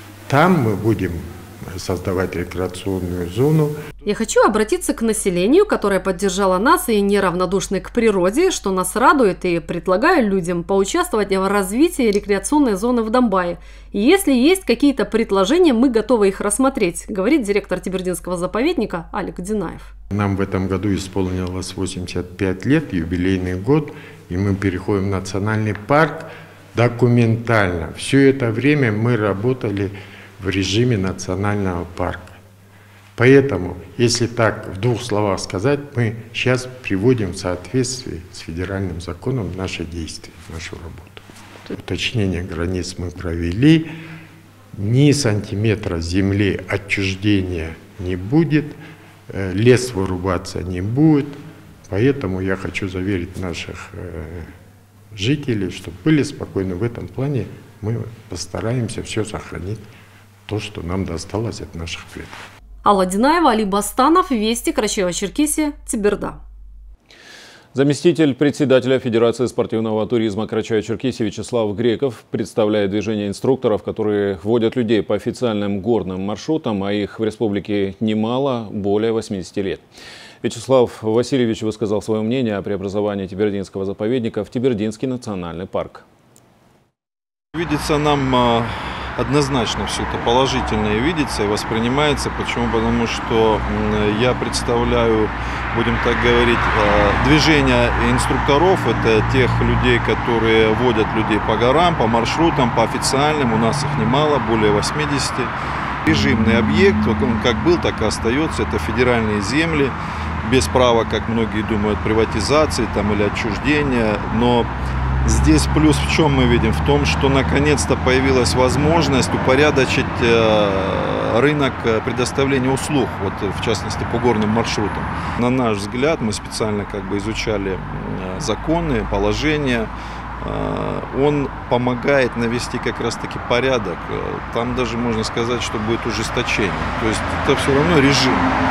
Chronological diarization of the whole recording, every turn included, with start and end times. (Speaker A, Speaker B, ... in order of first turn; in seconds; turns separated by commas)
Speaker A: 0.3-3.8, Speaker B: 4.1-19.9, Speaker A: 20.1-32.3, Speaker A: 33.1-43.9, Speaker A: 44.8-48.8, Speaker A: 49.3-54.5, Speaker A: 55.1-59.8, Speaker A: 60.5-62.4, Speaker B: 62.8-66.4, Speaker C: 67.7-79.8, Speaker C: 80.4-86.0, Speaker D: 87.5-105.5, Speaker D: 106.1-114.7, Speaker D: 115.2-129.9, Speaker D: 130.4-138.4